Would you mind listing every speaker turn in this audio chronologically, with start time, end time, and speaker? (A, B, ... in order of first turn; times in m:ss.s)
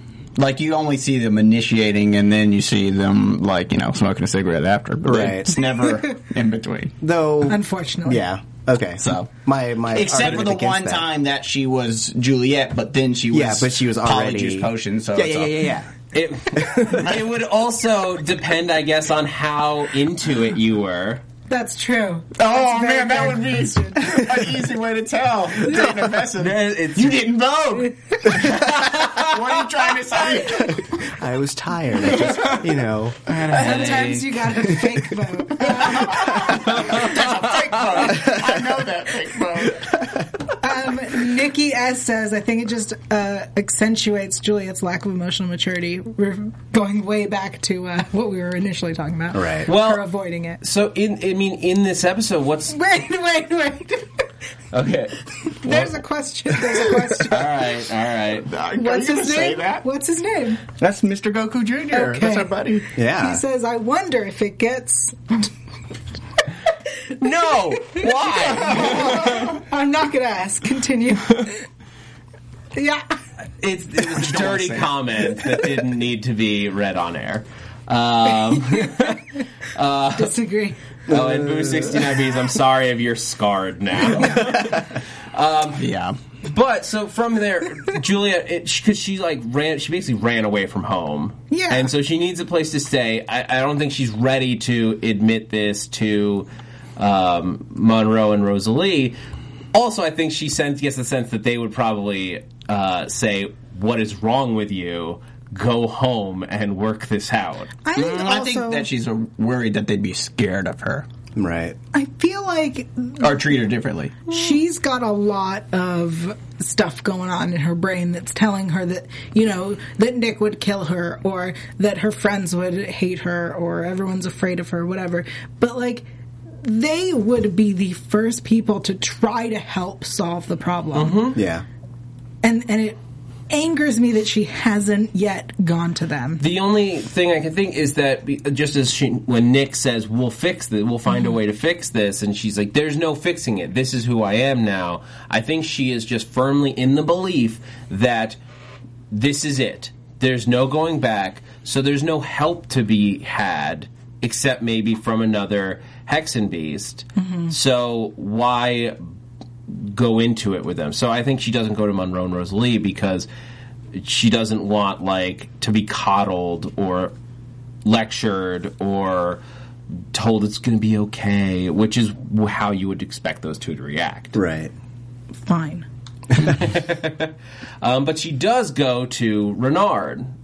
0:00.4-0:07.0 A
0:05.0-0:05.6 B
0:07.0-0:11.1 B
0:07.5-0:08.2 C
0:09.0-0:09.3 A
0:09.9-0:15.7 A
0:13.3-0:15.9 B
0:16.1-0:21.2 D
0:16.6-0:16.8 B
0:21.5-0:24.1 C
0:22.4-0:30.9 A
0:26.4-0:27.3 D
0:28.6-0:29.3 D
0:30.5-0:34.0 B
0:32.1-0:32.6 A
0:33.4-0:36.6 C
0:33.5-0:34.3 D
0:35.6-0:40.0 A
0:36.8-0:37.4 D
0:40.6-0:50.6 C
0:49.3-0:49.7 B
0:49.7-0:50.1 D
0:50.6-0:52.8 D
0:52.7-0:54.2 C
0:54.7-0:56.0 D
0:55.5-0:57.5 C
0:57.3-0:58.5 D
0:58.4-0:59.9 A
0:58.8-1:00.6 C
1:00.8-1:02.9 A
1:01.9-1:02.6 C
1:03.0-1:03.4 B
1:03.2-1:05.5 C
1:07.2-1:09.5 D
1:07.8-1:11.6 C
1:08.5-1:09.4 A
1:12.8-1:13.2 C
1:13.6-1:19.2 D
1:14.0-1:14.9 A
1:18.7-1:19.1 C
1:19.7-1:20.4 D
1:20.2-1:20.8 C
1:21.1-1:22.2 B
1:21.1-1:25.8 D
1:24.2-1:24.4 C
1:24.3-1:24.8 B
1:25.8-1:26.2 A
1:26.4-1:39.2 D
1:31.5-1:31.9 C
1:39.7-1:47.7 D
1:47.8-1:48.9 C
1:48.0-1:51.1 A
1:51.4-1:51.8 B
1:51.9-1:53.3 C
1:53.2-1:54.2 A
1:54.3-2:06.1 C
2:06.6-2:11.2 C
2:10.9-2:11.4 D
2:11.4-2:11.6 B
2:12.4-2:16.4 C
2:16.4-2:28.4 D
2:29.1-2:39.0 D
2:37.2-2:37.5 C
2:39.7-2:43.3 D
2:43.9-2:47.1 D
2:47.8-2:49.4 D
2:50.1-2:54.4 D
2:54.4-2:54.7 B
2:55.5-2:55.9 C
2:56.4-3:00.3 D